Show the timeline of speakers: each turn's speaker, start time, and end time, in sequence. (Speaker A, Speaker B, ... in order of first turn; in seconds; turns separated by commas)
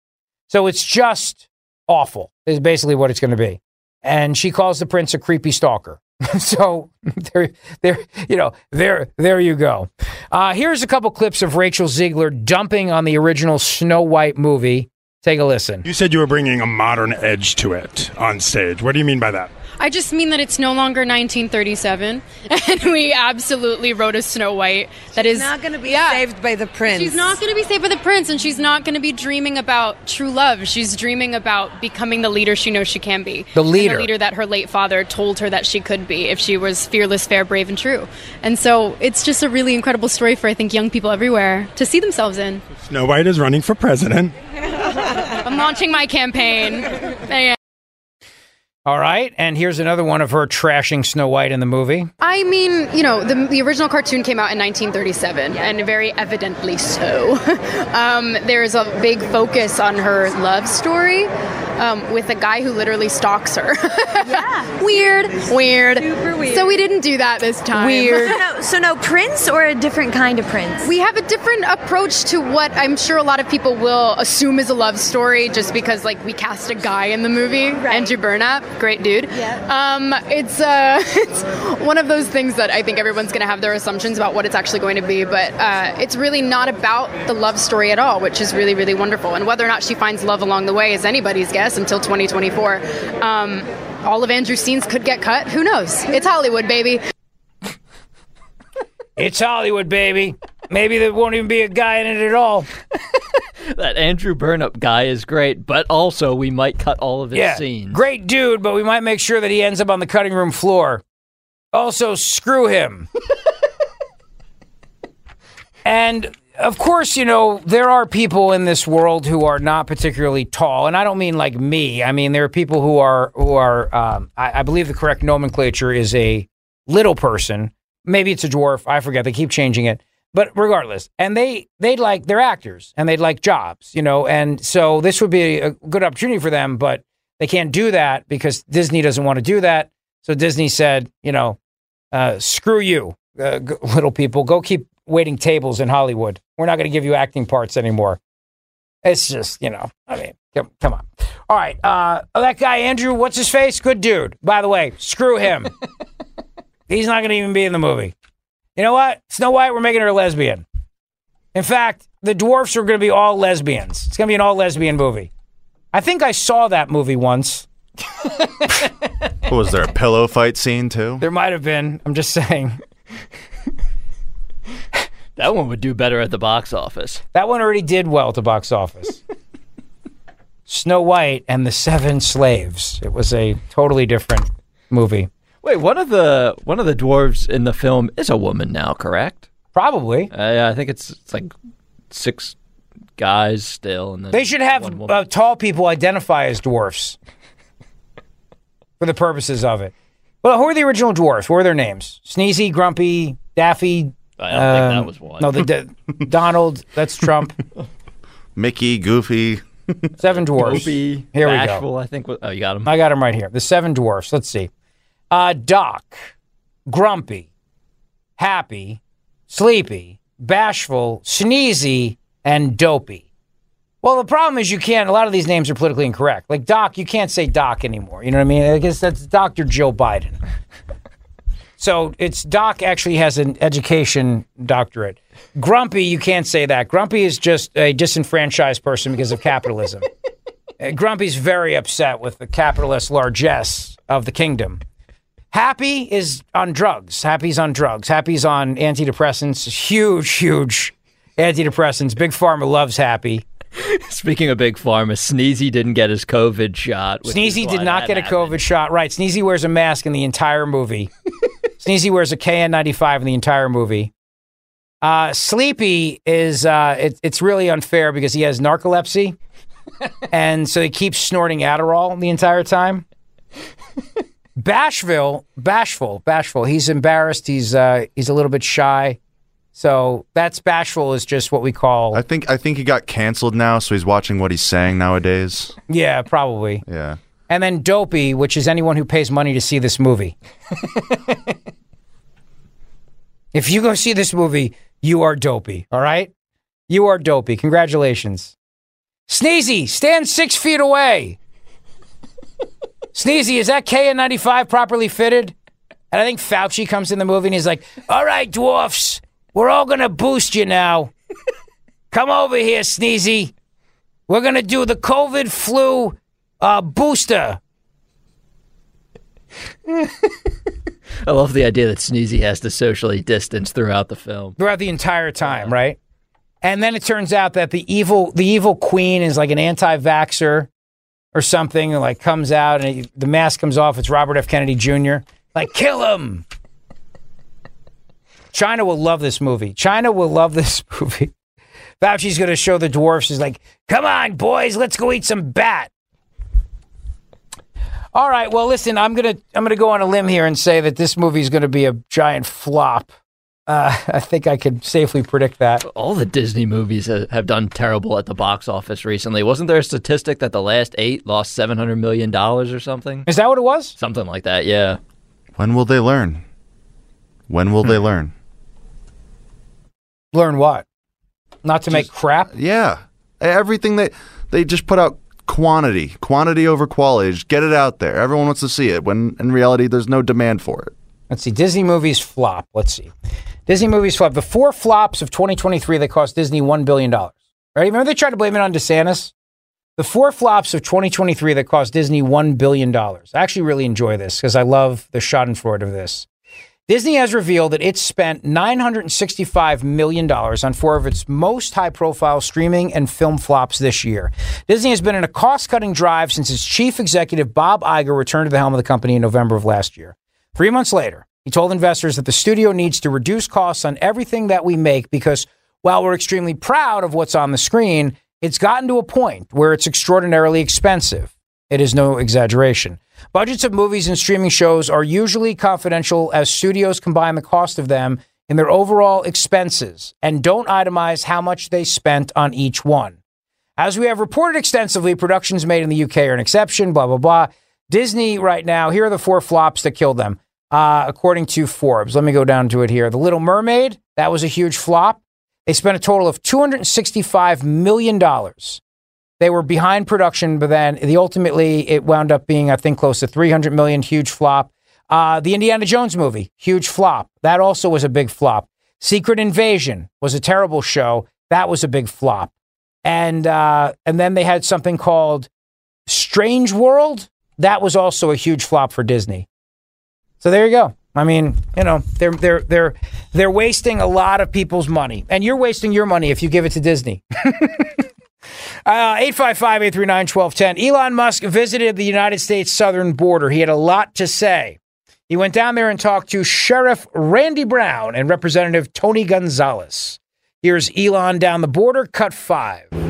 Speaker A: 0.5-15.8, Speaker B: 15.8-19.5, Speaker C: 19.8-26.3, Speaker D: 25.2-27.4, Speaker C: 26.9-42.6, Speaker A: 33.5-34.1, Speaker B: 42.8-44.3, Speaker C: 45.5-47.6, Speaker A: 48.9-52.1, Speaker C: 52.2-68.4, Speaker D: 64.3-65.4, Speaker D: 66.0-66.8, Speaker D: 67.8-70.9, Speaker C: 70.8-97.0, Speaker D: 77.8-78.1, Speaker D: 79.4-79.6, Speaker A: 99.2-102.7, Speaker E: 103.7-108.0, Speaker A: 107.3-111.0, Speaker A: 111.7-113.1, Speaker A: 115.8-141.6, Speaker A: 142.1-148.2, Speaker A: 149.0-155.7, Speaker A: 156.9-158.1, Speaker A: 158.8-160.6, Speaker A: 161.6-165.3, Speaker A: 165.9-167.7, Speaker F: 169.5-171.2, Speaker A: 171.2-172.8, Speaker E: 175.4-177.2, Speaker A: 177.3-179.2, Speaker A: 180.7-185.3, Speaker E: 185.6-189.5, Speaker A: 189.8-190.3, Speaker E: 190.3-191.5, Speaker E: 192.1-192.6, Speaker E: 193.2-195.2, Speaker A: 194.3-197.2, Speaker A: 199.0-207.5, Speaker E: 204.4-205.6, Speaker F: 208.6-210.1, Speaker A: 210.2-211.8, Speaker E: 210.6-212.9, Speaker A: 212.8-214.7, Speaker A: 215.3-216.3, Speaker A: 216.9-217.5, Speaker A: 218.4-223.3, Speaker A: 224.0-230.4, Speaker A: 231.8-240.1, Speaker A: 240.8-244.8, Speaker A: 245.5-253.4, Speaker E: 253.8-258.6, Speaker A: 257.2-261.1, Speaker A: 261.8-264.1, Speaker A: 265.0-269.4, Speaker A: 270.3-273.0, Speaker A: 274.6-279.2, Speaker A: 279.8-282.2, Speaker F: 282.1-285.8, Speaker A: 285.9-286.8, Speaker F: 286.9-287.2, Speaker A: 287.5-290.4, Speaker A: 293.5-296.3, Speaker A: 296.9-298.6, Speaker A: 299.3-301.4, Speaker A: 303.1-305.5, Speaker A: 306.1-311.1, Speaker A: 312.1-313.5, Speaker A: 314.3-317.6, Speaker E: 321.2-324.6, Speaker A: 324.6-326.0, Speaker E: 325.4-325.7, Speaker A: 326.6-330.7, Speaker A: 331.3-336.4, Speaker A: 338.5-341.3, Speaker A: 342.0-345.9, Speaker A: 348.1-353.1, Speaker A: 353.7-355.8, Speaker E: 355.9-363.3, Speaker A: 363.3-363.9, Speaker E: 364.0-365.0, Speaker F: 365.6-366.4, Speaker F: 367.5-368.3, Speaker A: 370.3-370.9, Speaker A: 371.6-372.5, Speaker F: 371.9-380.9, Speaker A: 381.3-383.1, Speaker A: 383.7-389.3, Speaker A: 390.0-396.3, Speaker A: 396.9-433.2, Speaker A: 433.8-448.8, Speaker A: 449.4-462.5, Speaker A: 463.1-465.5, Speaker A: 466.1-469.5, Speaker A: 470.4-477.9, Speaker A: 478.9-492.9